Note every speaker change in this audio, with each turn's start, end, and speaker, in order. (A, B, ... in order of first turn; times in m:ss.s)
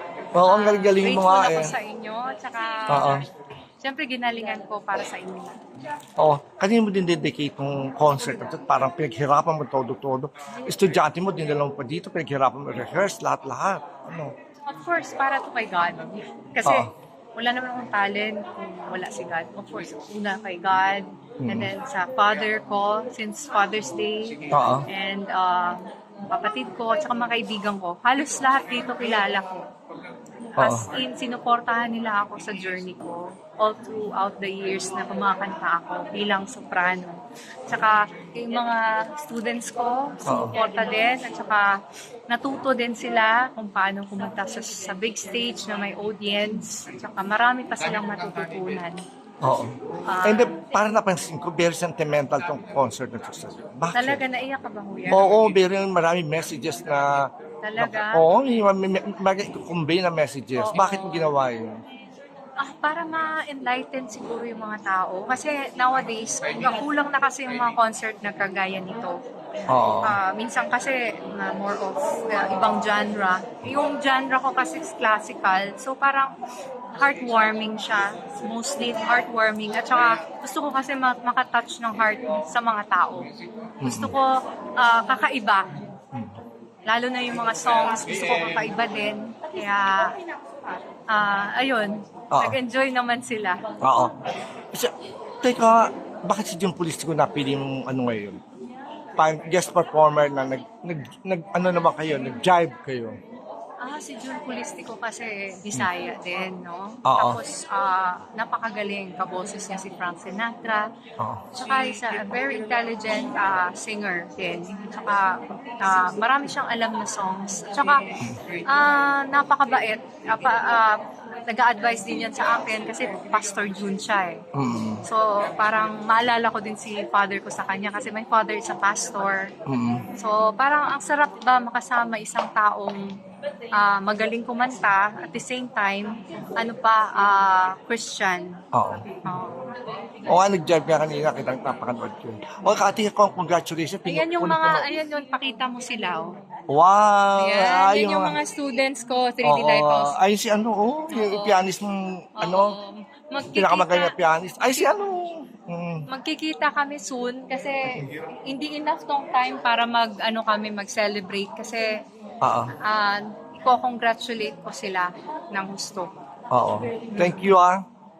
0:00.3-0:01.8 A
0:00.4-0:03.2 B
0:02.9-0:03.2 A
0:03.8-0:05.6 B
0:06.2-0:14.3 A
0:14.7-0:29.7 B
0:16.6-0:16.9 A
0:21.4-0:21.7 A
0:24.5-0:24.8 A
0:30.6-0:41.7 B
0:30.6-0:30.9 A
0:40.2-0:40.6 A
0:42.3-0:49.0 B
0:49.4-0:54.3 A
0:50.1-0:50.6 B
0:53.9-0:55.4 B
0:55.0-1:01.7 A
0:57.6-0:58.3 B
1:00.5-1:01.3 B
1:02.6-1:09.2 B
1:09.7-1:10.2 A
1:09.8-1:16.3 B
1:17.0-1:23.3 B
1:23.8-1:24.2 A
1:23.8-1:25.7 B
1:26.1-1:26.4 A
1:26.9-1:30.2 B
1:31.1-1:33.6 B
1:32.3-1:32.6 A
1:33.8-1:34.1 A
1:34.7-1:38.4 A
1:39.2-1:43.2 A
1:43.8-1:50.9 B
1:47.0-1:47.4 A
1:51.2-1:51.6 A
1:51.5-2:04.4 B
2:04.5-2:05.0 A
2:05.0-2:09.5 B
2:09.6-2:10.1 A
2:10.1-2:13.1 B
2:13.7-2:18.6 B
2:18.7-2:19.1 A
2:19.2-2:19.5 B
2:20.2-2:25.0 A
2:24.0-2:26.3 B
2:26.7-2:28.4 A
2:27.4-2:30.2 B
2:29.4-2:32.8 A
2:31.1-2:31.7 B
2:32.4-2:34.1 B
2:33.5-2:36.0 A
2:36.1-2:41.9 B
2:42.4-2:42.7 A
2:42.8-2:46.1 B
2:46.5-2:47.8 A
2:47.0-2:47.5 B